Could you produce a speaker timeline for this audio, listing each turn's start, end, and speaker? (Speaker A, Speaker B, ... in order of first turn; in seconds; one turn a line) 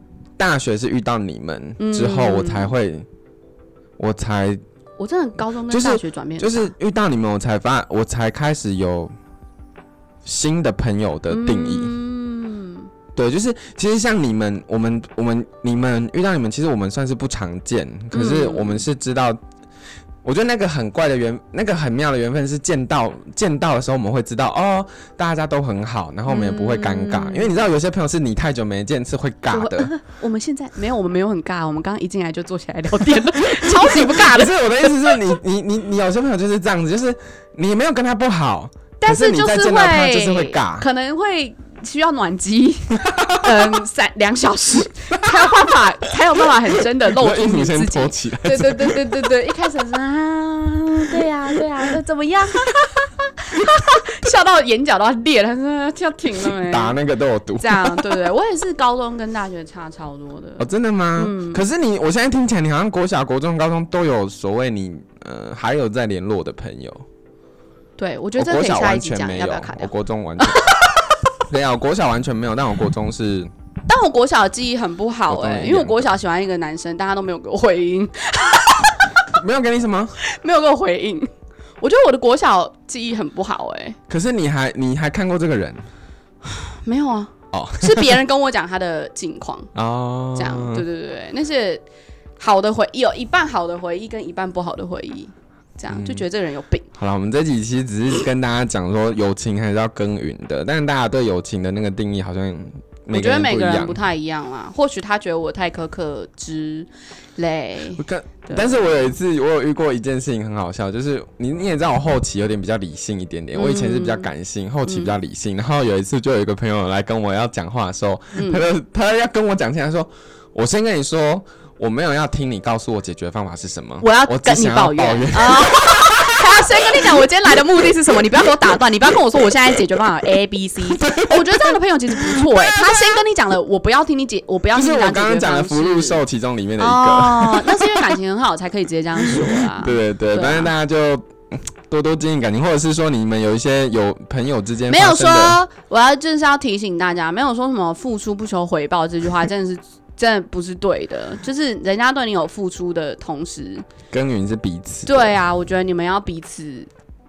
Speaker A: 0.4-3.1
Speaker B: 1.8-2.7
Speaker A: 4.0-4.6
Speaker B: 5.0-6.7
Speaker A: 5.7-9.2
Speaker A: 10.2-12.0
Speaker B: 11.3-12.9
Speaker A: 13.1-19.4
Speaker B: 18.1-18.9
Speaker A: 20.2-29.9
Speaker B: 26.3-27.5
Speaker B: 29.5-35.3
Speaker A: 33.4-40.9
Speaker B: 39.0-57.0
Speaker A: 43.1-43.8
Speaker A: 45.2-45.8
Speaker A: 47.1-49.2
Speaker A: 56.4-58.1
Speaker B: 57.6-61.6
Speaker A: 60.6-67.0
Speaker B: 68.0-71.1
Speaker A: 68.4-70.7
Speaker A: 71.5-73.5
Speaker B: 73.9-79.2
Speaker A: 75.3-76.1
Speaker A: 79.3-80.2
Speaker B: 80.2-81.3
Speaker B: 81.8-84.0
Speaker A: 84.1-85.9
Speaker B: 86.5-89.7
Speaker A: 87.5-88.2
Speaker A: 89.8-90.8
Speaker B: 90.3-91.8
Speaker B: 92.4-96.9
Speaker A: 95.9-96.2
Speaker A: 97.0-104.0
Speaker B: 103.1-109.0
Speaker A: 108.0-127.2
Speaker B: 113.5-114.3
Speaker B: 114.8-115.1
Speaker B: 118.3-118.6
Speaker B: 124.0-136.2
Speaker A: 130.9-133.2
Speaker A: 134.7-138.2
Speaker B: 136.8-140.7
Speaker A: 139.2-145.6
Speaker B: 144.9-153.9
Speaker A: 154.1-155.3
Speaker B: 155.1-156.9